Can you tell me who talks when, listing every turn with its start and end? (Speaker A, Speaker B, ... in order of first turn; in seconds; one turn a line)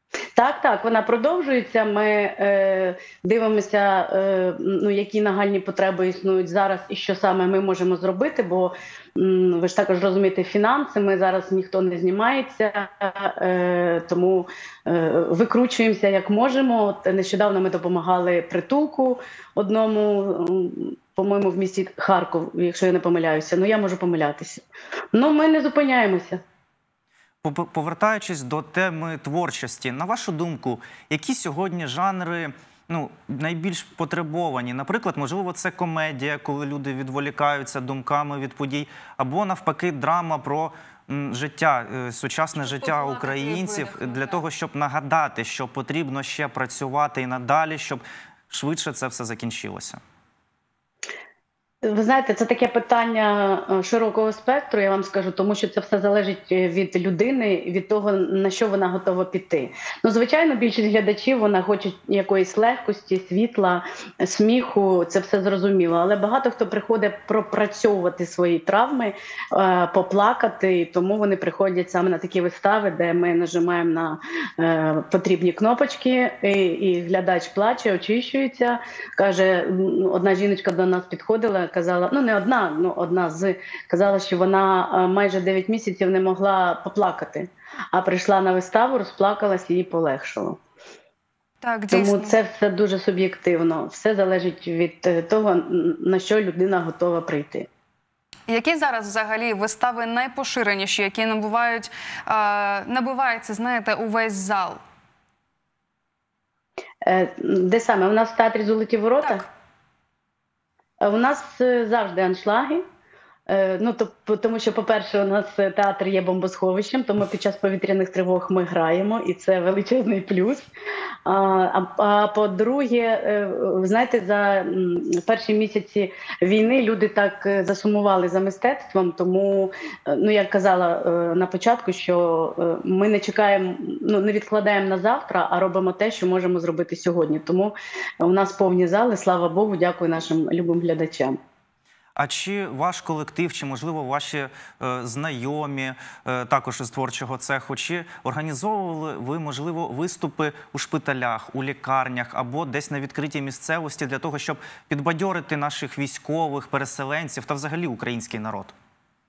Speaker A: 0.3-26.4
Speaker B: 27.4-50.0
Speaker C: 42.6-44.4
Speaker A: 51.8-90.6
Speaker C: 91.6-92.3
Speaker A: 91.9-97.7
Speaker C: 98.5-104.8
Speaker A: 107.0-109.4
Speaker A: 111.0-112.8
Speaker A: 113.5-120.7
Speaker A: 121.2-141.4
Speaker B: 142.2-158.7